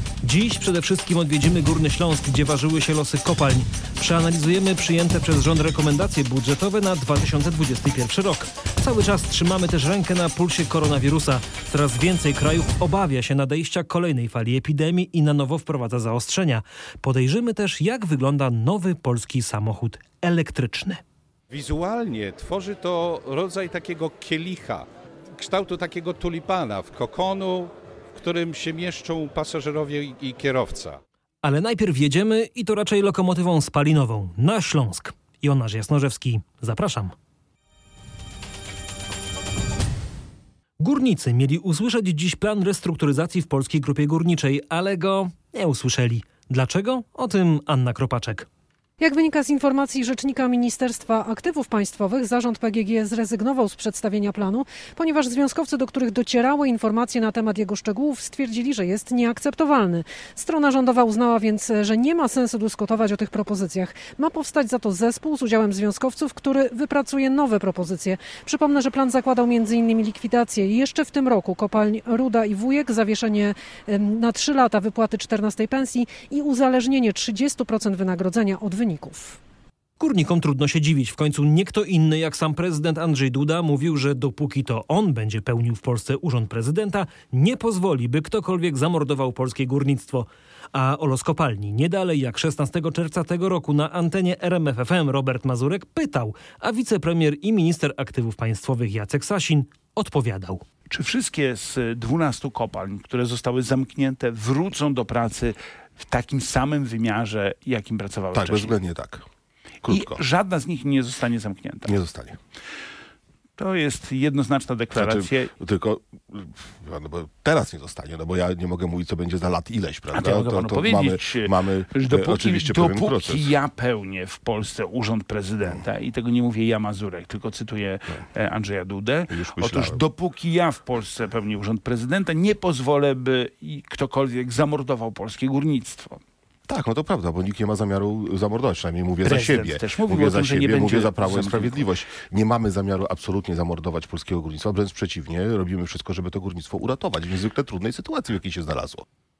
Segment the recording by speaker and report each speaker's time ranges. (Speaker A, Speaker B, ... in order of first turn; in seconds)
Speaker A: 0.2-21.0, 31.4-37.1, 40.8-48.5, 80.0-100.6
Speaker B: 21.5-31.0
Speaker C: 49.0-79.4
Speaker D: 100.9-108.8, 109.9-112.0, 113.6-115.5, 120.1-136.2, 139.2-142.2
Speaker E: 108.3-109.2, 109.8-110.2, 111.9-112.3, 114.9-123.5, 129.3-130.0, 136.7-149.0